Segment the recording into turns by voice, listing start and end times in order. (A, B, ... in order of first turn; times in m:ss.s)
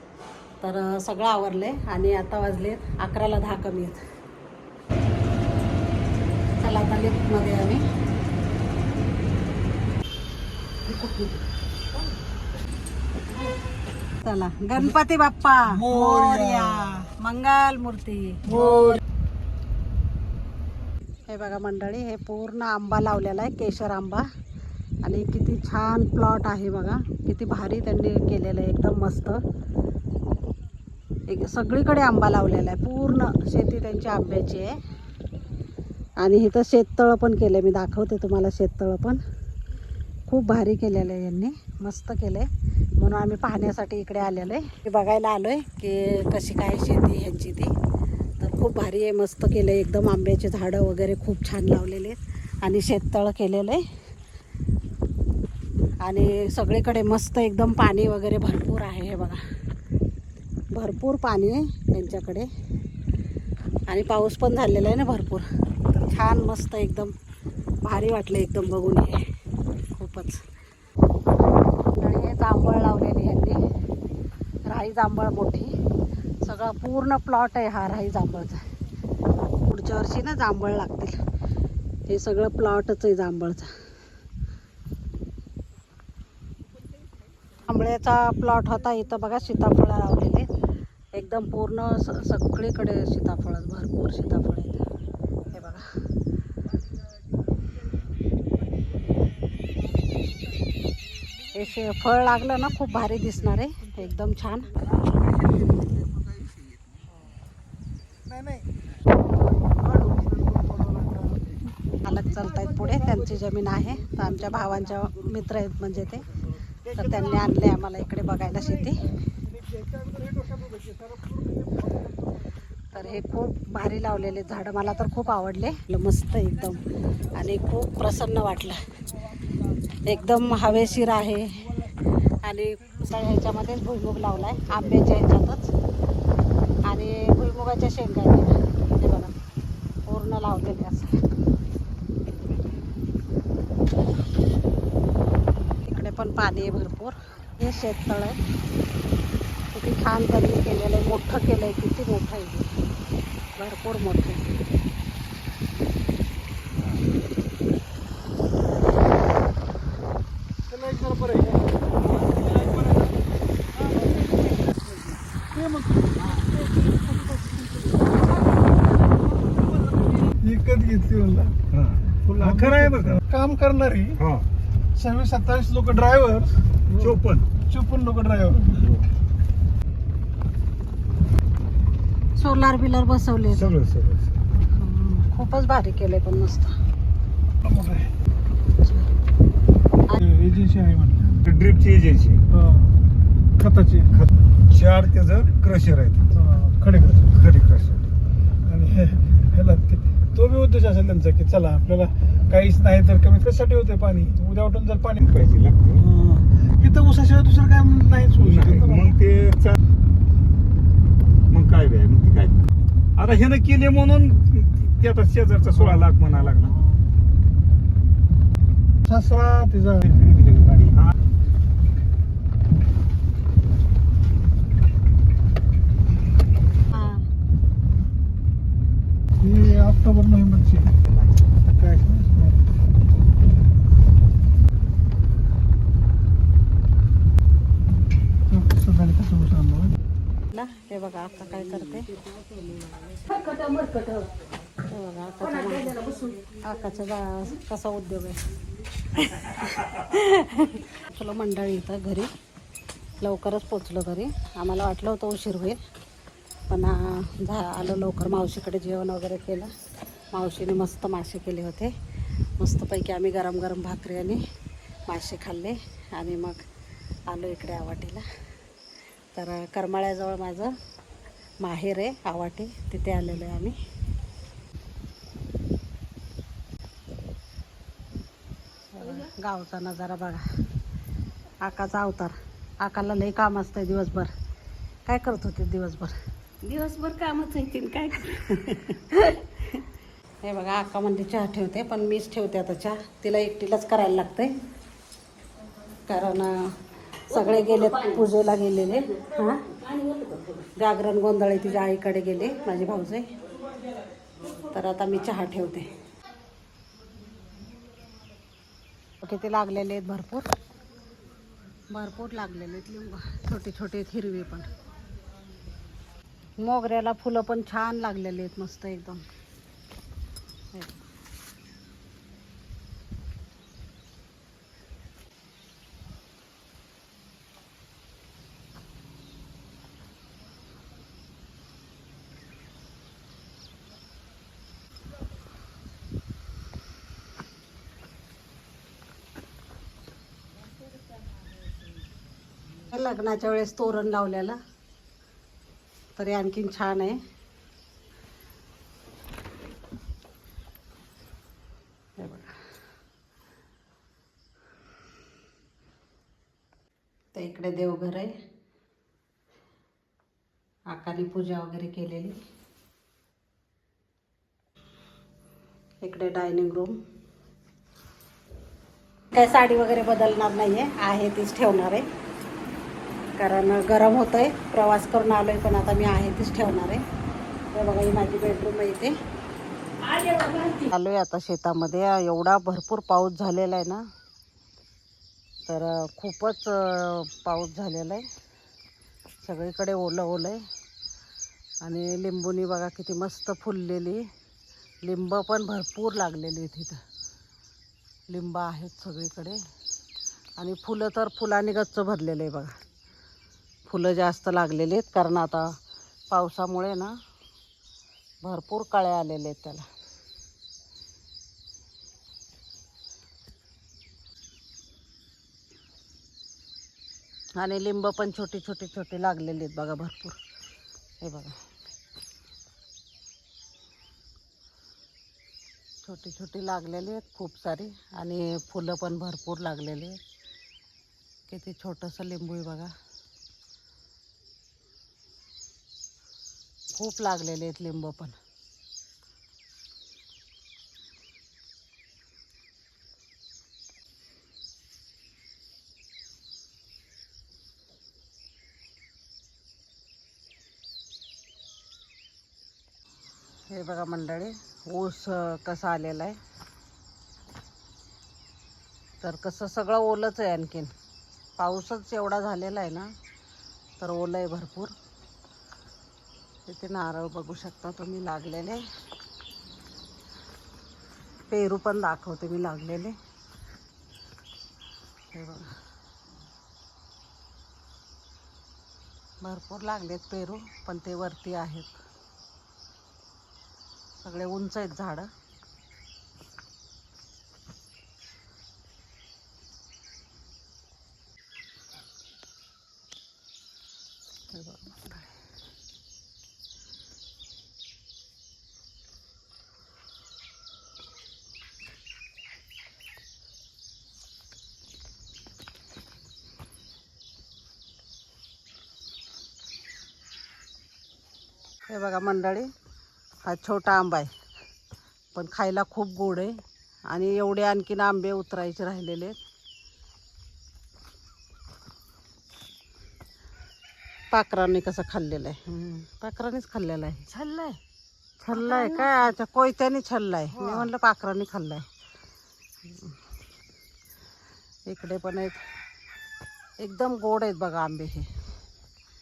0:00.6-0:04.0 A
0:06.6-0:07.8 A
0:14.2-0:18.9 A
0:15.9-0:16.6 B
0:18.5-0:19.0 B
0:21.3-0:24.3 A
0:25.0-0:29.4 A
0:31.3-0:34.8 A
0:36.2-0:39.2 A
0:40.3-0:42.5 A
0:43.0-0:47.7 A
0:48.4-0:53.8 A
0:56.0-0:59.4 A
1:00.7-1:02.5 A
1:03.9-1:07.1 A
1:07.8-1:09.3 A
1:09.9-1:10.4 A
1:11.9-1:13.6 A
1:14.7-1:15.7 A
1:16.4-1:18.6 A
1:19.6-1:21.2 A
1:22.1-1:23.7 A
1:27.6-1:30.5 A
1:31.1-1:34.8 A
1:35.5-1:35.9 A
1:41.5-1:44.7 A
1:48.3-1:48.6 B
1:49.7-1:51.4 B
1:52.0-1:56.3 A
1:56.9-1:59.1 A
1:59.6-2:02.1 B
2:02.9-2:08.8 A
2:10.0-2:15.7 A
2:16.8-2:19.3 A
2:20.0-2:21.2 A
2:25.8-2:28.4 A
2:29.7-2:32.7 A
2:33.6-2:34.4 A
2:40.7-2:41.6 B
2:45.6-2:48.2 B
2:50.2-2:51.6 B
2:51.7-2:53.2 C
2:53.3-2:54.1 B
2:54.2-2:54.5 C
2:55.0-2:56.8 B
2:56.9-2:57.5 C
2:57.7-2:58.8 B
3:02.4-3:03.7 A
3:03.5-3:04.4 C
3:04.7-3:06.7 A
3:07.6-3:08.1 B
3:08.7-3:09.1 A
3:10.2-3:11.4 B
3:11.4-3:12.4 C
3:13.6-3:14.1 B
3:14.1-3:16.3 C
3:16.4-3:17.3 B
3:17.3-3:18.0 C
3:18.7-3:25.2 B
3:25.2-3:26.1 C
3:26.2-3:28.4 B
3:28.4-3:29.8 C
3:31.5-3:32.6 C
3:33.2-3:36.8 C
3:39.1-3:40.9 B
3:46.9-3:47.2 A
3:49.4-3:50.9 B
3:51.8-3:52.5 B
3:58.5-3:59.9 B
4:00.5-4:02.2 A
4:02.7-4:04.4 D
4:04.8-4:08.4 A
4:05.6-4:06.4 D
4:09.2-4:12.3 A
4:13.2-4:15.8 A
4:16.7-4:19.7 A
4:20.3-4:21.9 A
4:22.6-4:24.4 A
4:25.1-4:26.6 A
4:27.3-4:28.2 A
4:29.3-4:30.8 A
4:31.6-4:33.8 A
4:38.9-4:40.5 A
4:41.6-4:44.3 A
4:45.0-4:46.1 A
4:46.6-4:49.0 D
4:50.4-4:54.6 A
4:56.1-4:56.8 A
4:57.3-4:59.6 A
4:57.3-4:58.2 D
4:59.7-5:00.6 D
5:00.6-5:03.3 A
5:04.5-5:05.9 A
5:09.2-5:10.5 A
5:11.9-5:14.7 A
5:16.6-5:19.2 A
5:42.8-5:44.6 A
5:46.2-5:47.2 A
5:52.2-5:52.6 A
5:57.3-5:58.3 A
6:00.9-6:02.4 A
6:06.0-6:07.0 A
6:09.3-6:12.0 A
6:13.4-6:17.0 A
6:17.7-6:19.1 A
6:20.1-6:20.7 D
6:20.7-6:24.0 A
6:25.7-6:28.3 A
6:29.4-6:30.6 A
6:31.8-6:34.3 A
6:35.0-6:37.0 A
6:38.3-6:39.6 A
6:40.6-6:42.7 A
6:43.9-6:45.8 A
6:46.3-6:47.2 A
6:48.4-6:49.8 A
6:57.6-7:00.4 A
7:01.2-7:01.6 A
7:06.0-7:10.2 A
7:11.5-7:12.9 A
7:16.9-7:18.4 A
7:33.7-7:36.4 A
7:39.2-7:40.9 A
7:41.6-7:43.1 A
7:44.0-7:44.9 A
7:46.7-7:48.8 A
7:51.5-7:53.2 A
7:55.3-7:55.7 A
7:59.4-8:01.9 A
8:04.2-8:05.3 A
8:14.5-8:15.3 A
8:31.9-8:32.7 A
8:33.4-8:34.3 A
8:35.3-8:36.6 A
8:37.1-8:39.4 A
8:44.3-8:47.2 A
8:47.3-8:47.8 D
8:48.4-8:51.9 A
8:48.5-8:49.3 D
8:50.5-8:50.9 D
8:52.8-8:53.1 A
8:54.9-8:55.6 A
8:56.8-8:58.3 A